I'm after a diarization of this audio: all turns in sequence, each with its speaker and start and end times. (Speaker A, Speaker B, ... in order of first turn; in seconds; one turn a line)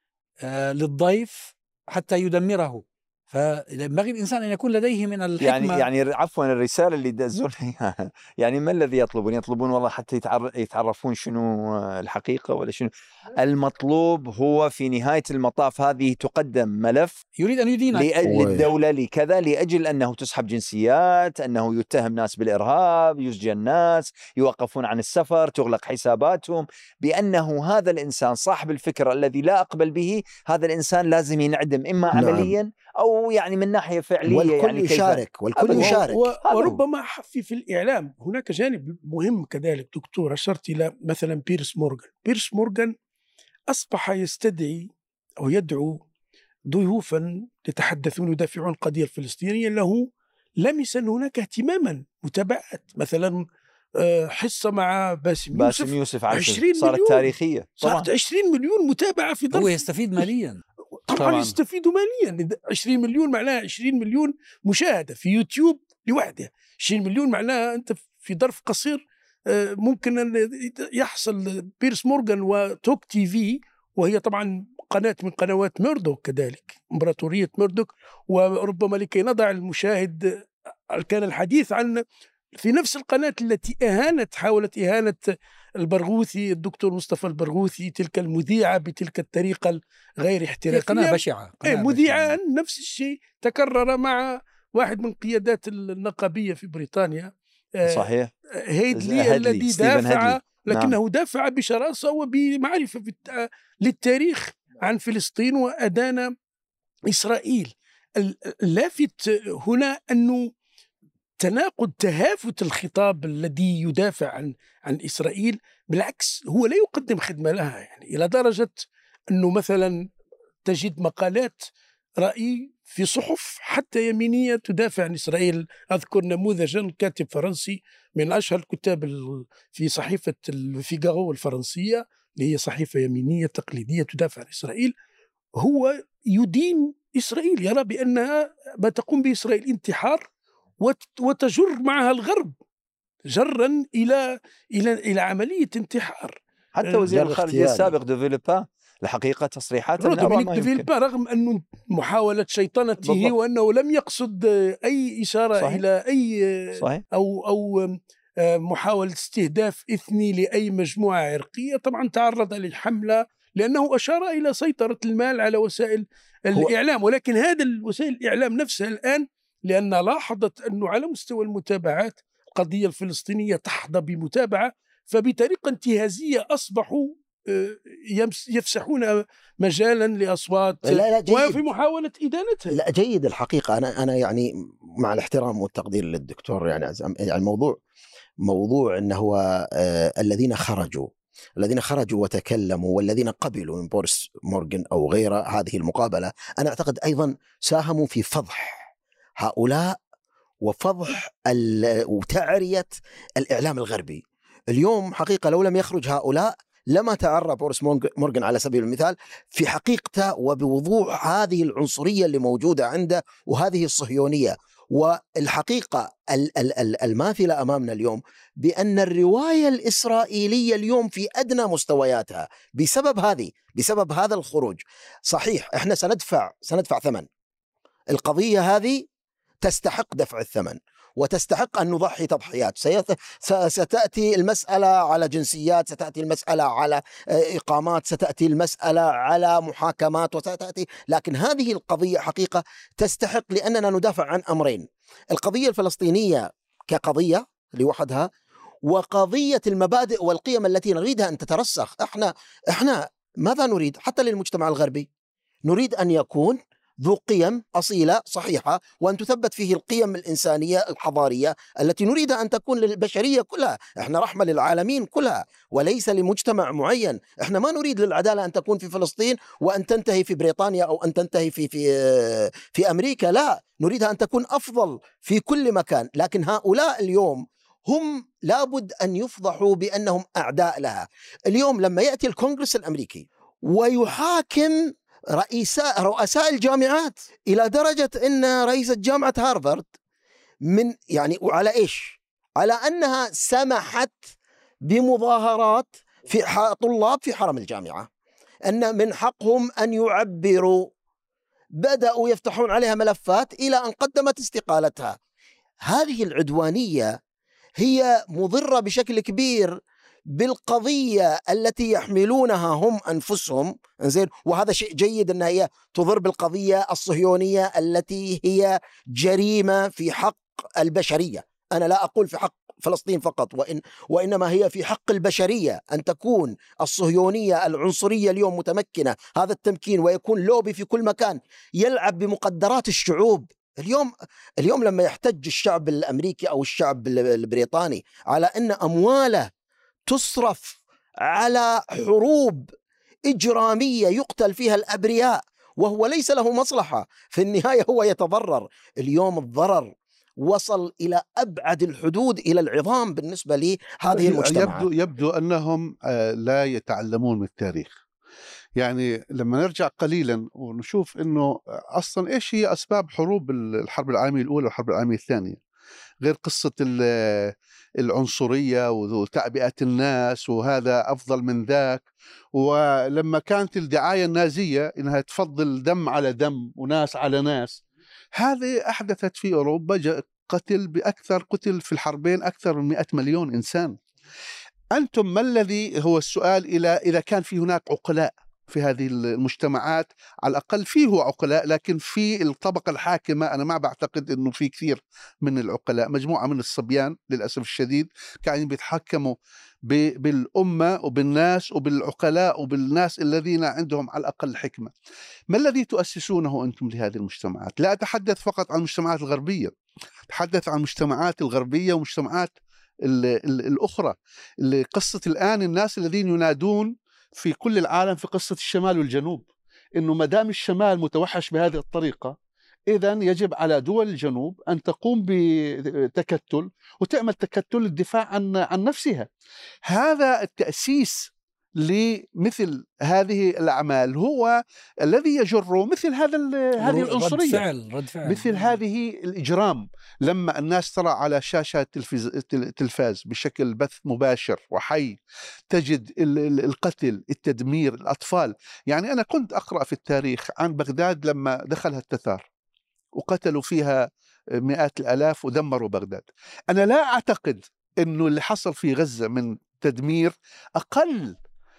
Speaker A: 0.4-5.8
Speaker B: 5.4-17.2
Speaker A: 17.4-18.2
Speaker B: 17.9-36.8
Speaker C: 18.2-18.7
Speaker C: 32.1-32.5
Speaker C: 34.2-36.3
Speaker D: 35.6-42.9
Speaker D: 43.7-46.0
Speaker D: 46.7-50.1
Speaker D: 50.6-53.4
Speaker D: 54.0-60.2
Speaker B: 55.5-58.1
Speaker A: 59.5-60.6
Speaker D: 61.1-82.0
Speaker E: 61.1-61.6
Speaker D: 82.5-85.2
Speaker D: 85.8-98.1
Speaker A: 90.7-92.3
Speaker B: 97.8-98.3
Speaker D: 98.7-106.3
Speaker B: 98.9-101.0
Speaker D: 107.1-110.5
Speaker D: 111.4-120.0
Speaker D: 120.6-121.7
Speaker D: 122.2-134.9
Speaker D: 135.6-140.3
Speaker D: 140.8-142.5
Speaker D: 143.3-147.1
Speaker B: 146.7-150.9
Speaker C: 147.0-147.9
Speaker D: 150.0-182.8
Speaker B: 153.0-153.3
Speaker B: 155.6-155.8
Speaker B: 156.8-157.0
Speaker C: 180.8-181.6
Speaker C: 182.7-184.5
Speaker C: 185.0-187.8
Speaker C: 188.4-200.0
Speaker C: 200.6-227.3
Speaker C: 228.1-229.1
Speaker C: 229.6-248.3
Speaker C: 248.8-255.1
Speaker C: 255.7-289.9
Speaker C: 290.7-294.3
Speaker C: 294.9-298.1
Speaker C: 298.7-300.9
Speaker C: 301.8-305.1
Speaker C: 305.8-307.1
Speaker C: 307.8-309.8
Speaker C: 310.4-339.5
Speaker C: 340.1-342.7
Speaker C: 343.3-354.9
Speaker E: 354.1-357.9
Speaker E: 358.8-365.6
Speaker E: 366.2-377.8
Speaker E: 378.3-384.0
Speaker E: 384.9-404.9
Speaker E: 405.5-409.7
Speaker E: 410.3-419.4
Speaker E: 420.0-422.3
Speaker E: 422.9-429.3
Speaker E: 429.9-437.6
Speaker A: 436.8-438.8
Speaker E: 438.2-445.2
Speaker E: 445.7-452.4
Speaker E: 453.2-454.1
Speaker E: 454.6-461.4